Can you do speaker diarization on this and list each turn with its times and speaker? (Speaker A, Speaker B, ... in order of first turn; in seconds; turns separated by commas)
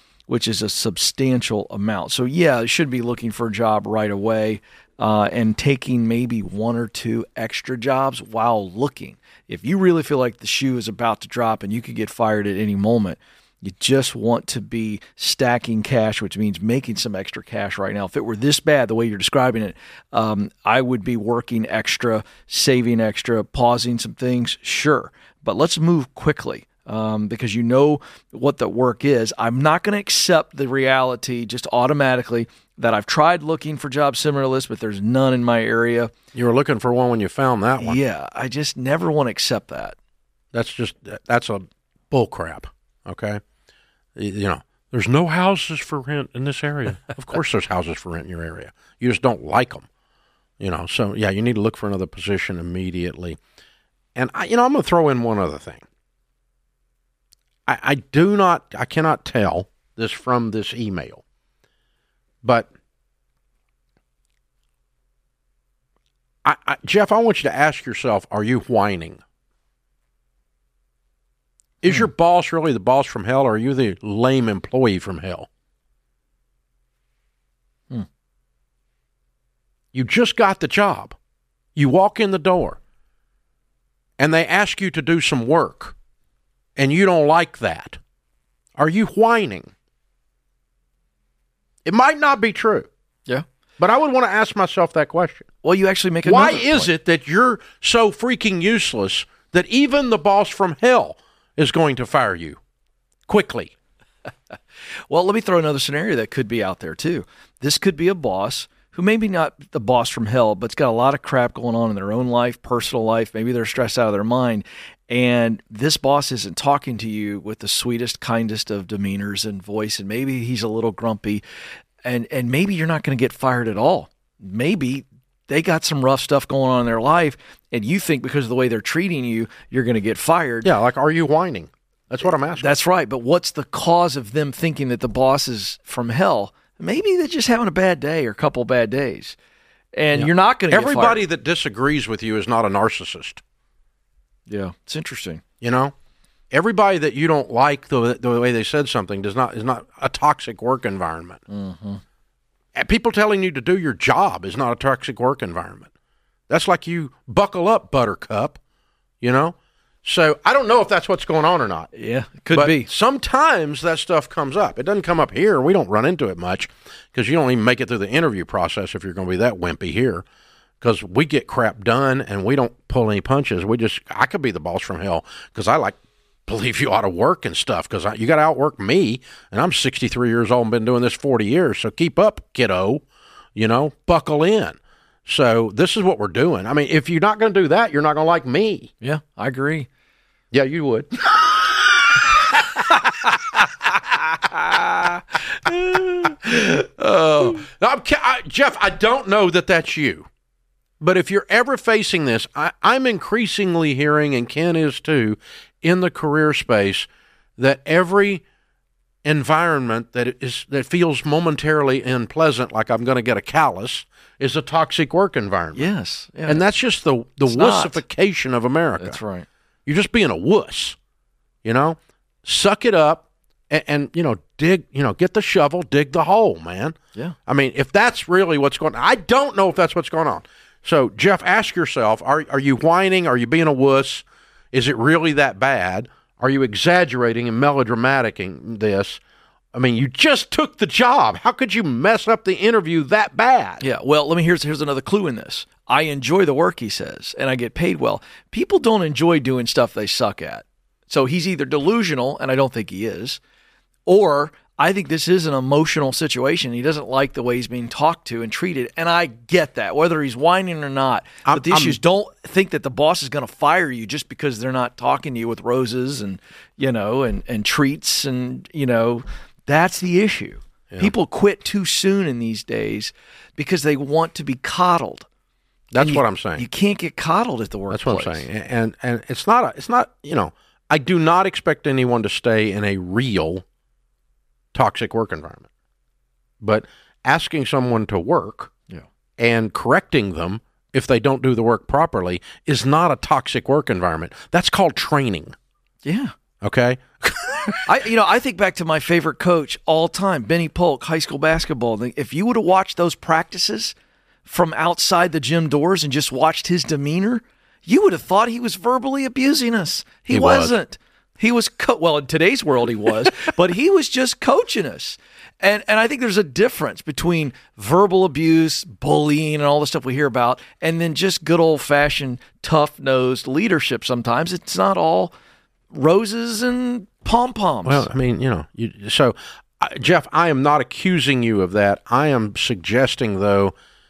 Speaker A: 0.3-36.1, Speaker B: 36.3-38.0, Speaker A: 37.8-40.0, Speaker B: 40.5-43.4, Speaker B: 44.2-49.9, Speaker B: 50.6-53.4, Speaker B: 54.2-55.8, Speaker B: 57.7-61.2, Speaker B: 62.4-62.7, Speaker B: 66.4-69.2, Speaker B: 71.8-75.5, Speaker B: 79.9-81.2, Speaker B: 81.8-82.8, Speaker B: 84.2-85.9, Speaker B: 86.8-88.0, Speaker B: 88.8-89.7, Speaker B: 91.8-92.9, Speaker B: 93.8-95.5, Speaker A: 95.6-96.9, Speaker B: 96.2-102.6, Speaker B: 103.3-103.7, Speaker A: 105.1-121.4, Speaker A: 122.0-130.7, Speaker B: 130.6-132.7, Speaker A: 132.6-139.3, Speaker A: 139.9-141.2, Speaker B: 140.1-143.4, Speaker A: 144.5-145.4, Speaker B: 145.6-145.9, Speaker B: 146.5-151.4, Speaker A: 151.5-152.0, Speaker B: 152.8-155.9, Speaker B: 156.5-158.6, Speaker B: 159.2-161.9, Speaker A: 161.9-162.9, Speaker B: 162.5-170.2, Speaker B: 170.8-183.0, Speaker B: 183.6-188.9, Speaker A: 189.0-189.9, Speaker B: 190.5-192.9, Speaker A: 194.5-197.6, Speaker B: 197.4-200.3, Speaker B: 201.0-207.1, Speaker B: 207.6-208.4, Speaker B: 209.2-215.9, Speaker A: 215.8-216.6, Speaker B: 216.5-219.2, Speaker A: 217.5-218.0, Speaker A: 219.0-219.5, Speaker B: 219.8-221.0, Speaker B: 221.6-239.2, Speaker B: 239.7-243.8, Speaker A: 243.8-253.4, Speaker A: 254.1-275.2, Speaker B: 261.5-262.0, Speaker B: 275.9-276.6, Speaker A: 276.0-278.5, Speaker B: 277.9-283.6, Speaker B: 284.7-285.7, Speaker B: 286.6-288.7, Speaker B: 289.4-295.5, Speaker A: 296.0-296.3, Speaker B: 296.6-297.8, Speaker A: 297.9-303.9, Speaker A: 304.5-325.3, Speaker B: 310.3-310.8, Speaker A: 325.9-328.1, Speaker B: 327.9-333.8